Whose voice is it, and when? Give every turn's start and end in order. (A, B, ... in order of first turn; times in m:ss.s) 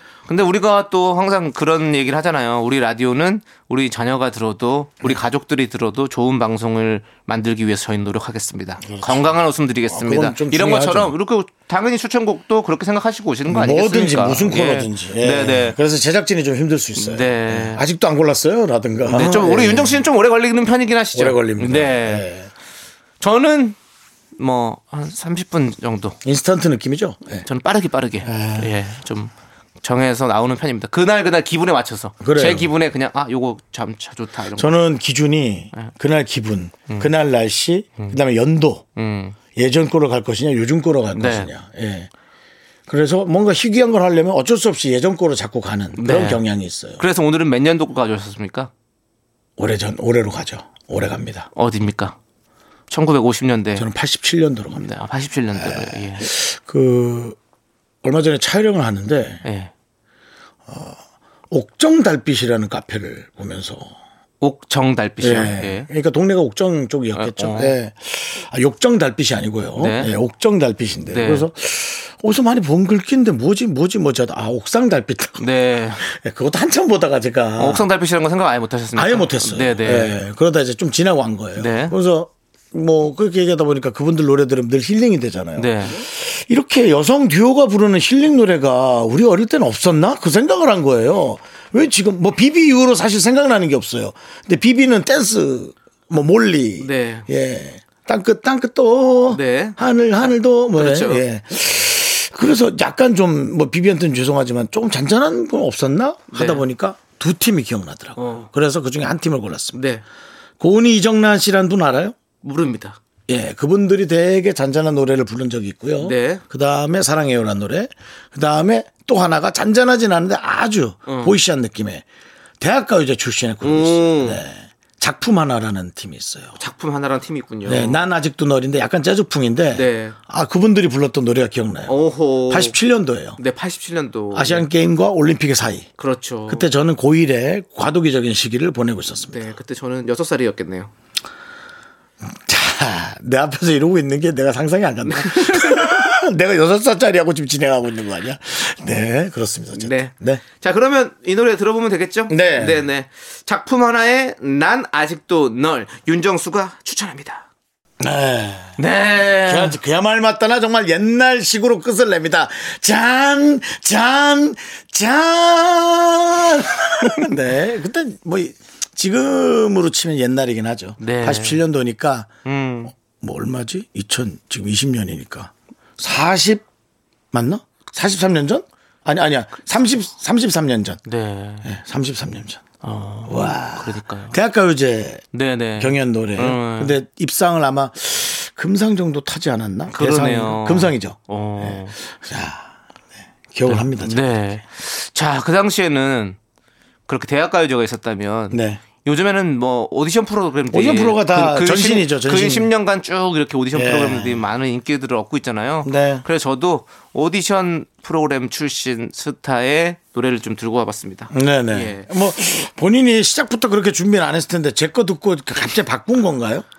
0:00.3-0:15.8 A
0:08.8-0:09.3 B
0:09.9-0:11.1 B
0:13.5-0:20.0 B
0:17.0-0:17.8 A
0:19.1-0:22.2 A
0:21.1-0:22.5 B
0:23.2-0:23.8 A
0:24.4-0:26.2 A
0:26.2-0:27.5 B
0:27.4-0:34.7 A
0:28.2-0:28.7 B
0:32.2-0:32.7 B
0:34.6-0:38.8 B
0:39.0-0:39.4 A
0:39.6-0:42.1 B
0:41.1-0:41.5 A
0:42.9-0:47.0 B
0:46.0-0:46.4 A
0:47.0-0:48.7 A
0:49.6-0:51.5 B
0:51.6-0:52.2 A
0:52.9-0:53.9 A
0:53.8-0:54.9 B
0:54.8-0:56.3 A
0:55.6-0:57.4 B
0:58.0-0:59.4 B
0:59.4-0:59.7 A
1:00.7-1:01.0 B
1:01.5-1:03.9 B
1:04.4-1:05.9 A
1:05.2-1:15.5 B
1:07.2-1:07.7 A
1:09.8-1:10.1 A
1:11.1-1:11.5 A
1:15.4-1:16.0 A
1:16.0-1:17.9 B
1:17.6-1:20.2 A
1:19.0-1:49.8 B
1:21.6-1:22.0 A
1:25.6-1:26.0 A
1:36.8-1:37.3 A
1:39.3-1:39.8 A
1:40.7-1:41.2 A
1:46.3-1:46.6 A
1:48.2-1:48.5 A
1:49.7-1:50.0 A
1:50.6-1:52.2 B
1:52.4-1:53.0 A
1:53.3-2:02.0 B
1:56.0-1:56.4 A
2:01.1-2:01.4 A
2:02.6-2:06.6 B
2:03.6-2:04.4 A
2:06.6-2:08.0 A
2:07.6-2:13.4 B
2:09.7-2:10.2 A
2:11.9-2:12.8 A
2:13.4-2:14.7 A
2:14.3-2:15.9 B
2:16.0-2:16.7 A
2:16.5-2:19.4 B
2:19.3-2:20.9 A
2:22.2-2:30.4 B
2:25.0-2:26.0 A
2:29.8-2:37.5 A
2:32.3-2:32.8 B
2:38.0-2:52.3 B
2:38.8-2:39.8 A
2:51.0-2:51.6 A
2:52.4-2:52.9 A
2:52.9-2:56.6 B
2:57.3-3:01.0 B
3:01.0-3:01.7 A
3:01.6-3:02.6 B
3:02.8-3:04.4 A
3:03.2-3:05.2 B
3:05.3-3:07.0 A
3:05.8-3:12.7 B
3:09.9-3:11.9 A
3:13.5-3:14.2 B
3:13.7-3:16.4 A
3:17.1-3:32.1 A
3:18.5-3:18.8 B
3:20.7-3:22.7 B
3:23.7-3:24.4 B
3:25.8-3:26.2 B
3:31.3-3:36.7 B